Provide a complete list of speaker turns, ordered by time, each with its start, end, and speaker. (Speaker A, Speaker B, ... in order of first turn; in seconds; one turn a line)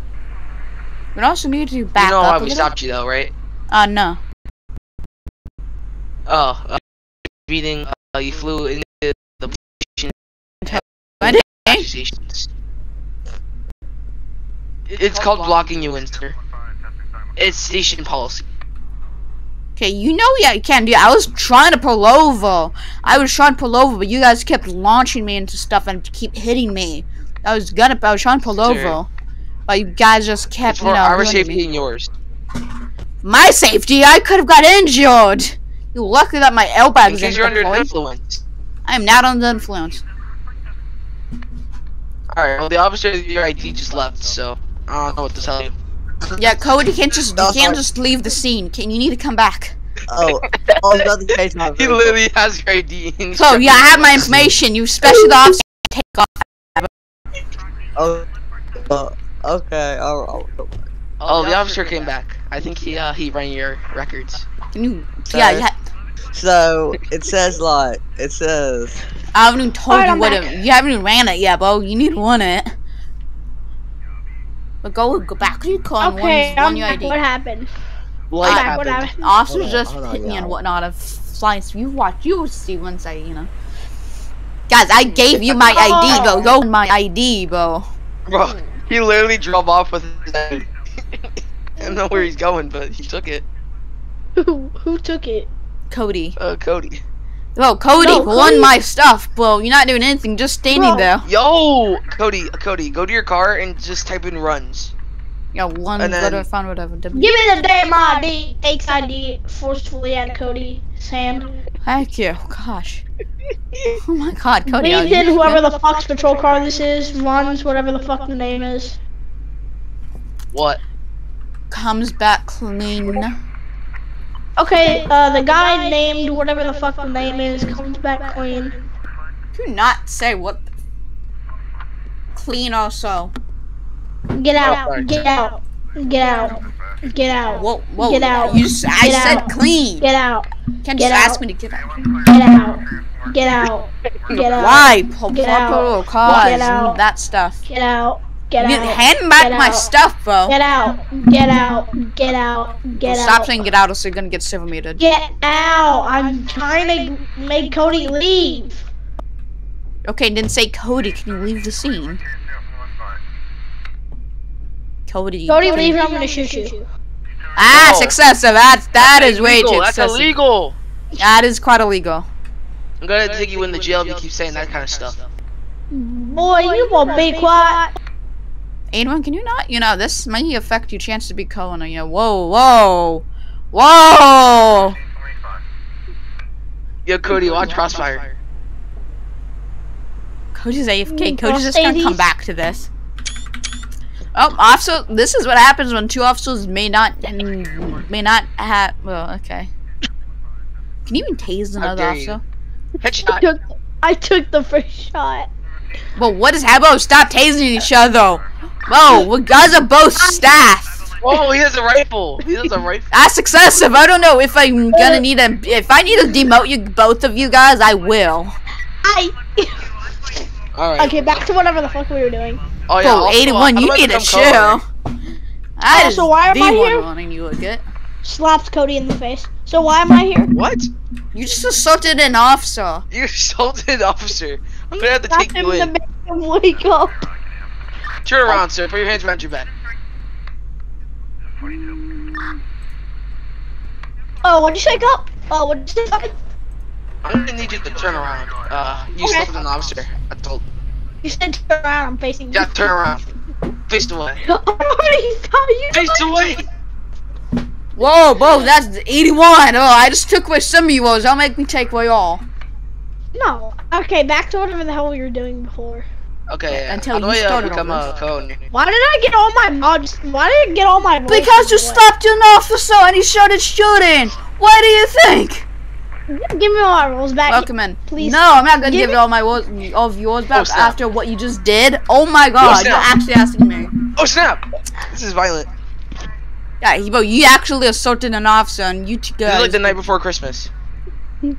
Speaker A: 1.1-2.7
Speaker B: 2.0-3.3
Speaker A: 3.7-4.2
Speaker B: 6.3-6.8
Speaker B: 7.5-10.1
Speaker A: 10.6-11.9
Speaker B: 10.7-12.5
Speaker B: 14.9-16.4
Speaker B: 17.4-18.4
Speaker A: 19.8-29.1
Speaker B: 28.6-29.0
Speaker A: 29.7-31.6
Speaker B: 30.6-32.1
Speaker A: 33.2-37.9
Speaker B: 37.1-38.4
Speaker A: 38.9-40.0
Speaker B: 42.3-45.7
Speaker C: 46.3-46.6
Speaker A: 46.4-49.8
Speaker C: 47.4-47.8
Speaker C: 50.1-52.2
Speaker B: 50.5-51.1
Speaker B: 51.7-54.3
Speaker A: 53.4-56.9
Speaker C: 54.2-54.5
Speaker C: 58.0-58.3
Speaker C: 58.9-61.7
Speaker B: 61.2-64.5
Speaker A: 64.7-65.7
Speaker C: 65.2-65.7
Speaker C: 66.3-69.0
Speaker A: 69.3-72.7
Speaker D: 69.9-70.5
Speaker A: 74.8-77.2
Speaker D: 76.0-77.7
Speaker B: 78.3-79.1
Speaker D: 78.4-79.3
Speaker A: 78.4-83.5
Speaker C: 79.5-80.6
Speaker A: 84.7-87.9
Speaker D: 85.7-86.6
Speaker B: 88.3-91.2
Speaker D: 91.8-92.3
Speaker B: 91.8-93.5
Speaker D: 94.4-95.5
Speaker A: 95.9-96.3
Speaker B: 96.4-97.0
Speaker A: 97.6-101.2
Speaker D: 98.0-98.7
Speaker D: 100.7-101.1
Speaker B: 101.2-104.9
Speaker A: 105.5-107.4
Speaker B: 106.0-106.5
Speaker D: 107.1-111.5
Speaker A: 111.8-113.0
Speaker A: 114.0-115.7
Speaker D: 114.7-119.0
Speaker B: 120.5-120.8
Speaker A: 121.7-123.4
Speaker D: 124.6-128.9
Speaker A: 129.6-130.7
Speaker A: 132.3-133.3
Speaker D: 134.3-141.4
Speaker B: 134.6-135.1
Speaker A: 137.6-140.1
Speaker A: 140.8-141.9
Speaker D: 142.2-147.0
Speaker A: 144.5-147.6
Speaker D: 147.7-149.9
Speaker A: 148.6-150.6
Speaker D: 150.5-153.6
Speaker A: 153.0-155.0
Speaker D: 155.0-158.8
Speaker A: 160.1-162.2
Speaker A: 165.1-166.1
Speaker D: 165.5-166.9
Speaker A: 167.6-170.3
Speaker B: 167.7-168.2
Speaker B: 169.0-170.8
Speaker A: 171.2-172.3
Speaker B: 173.0-175.3
Speaker D: 175.9-177.9
Speaker A: 178.9-185.0
Speaker B: 187.1-188.3
Speaker A: 190.5-192.9
Speaker D: 191.1-192.3
Speaker A: 194.3-199.7
Speaker A: 201.1-202.4
Speaker B: 201.8-202.4
Speaker B: 203.0-203.5
Speaker D: 203.2-205.5
Speaker A: 206.2-211.1
Speaker B: 211.2-213.1
Speaker A: 213.1-218.6
Speaker D: 214.9-215.2
Speaker D: 219.0-219.8
Speaker B: 220.8-221.5
Speaker D: 221.0-222.7
Speaker B: 222.9-224.8
Speaker A: 223.0-224.9
Speaker A: 225.8-227.9
Speaker D: 225.9-227.1
Speaker D: 228.2-230.5
Speaker B: 230.5-230.9
Speaker A: 231.3-233.1
Speaker B: 233.1-235.9
Speaker D: 234.9-237.3
Speaker B: 238.2-239.7
Speaker D: 241.7-242.5
Speaker D: 244.4-246.3
Speaker B: 247.2-250.6
Speaker D: 249.1-249.6
Speaker D: 251.2-252.8
Speaker B: 252.5-253.2
Speaker B: 253.9-254.4
Speaker D: 254.4-256.6
Speaker B: 255.9-256.6
Speaker A: 258.0-262.4
Speaker D: 263.4-266.1
Speaker B: 266.5-268.6
Speaker A: 266.7-268.1
Speaker D: 268.7-272.0
Speaker A: 271.3-275.7
Speaker D: 276.3-279.2
Speaker A: 277.5-283.9
Speaker B: 280.5-281.0
Speaker B: 282.6-283.1
Speaker B: 284.2-285.7
Speaker A: 286.8-290.0
Speaker B: 289.4-290.7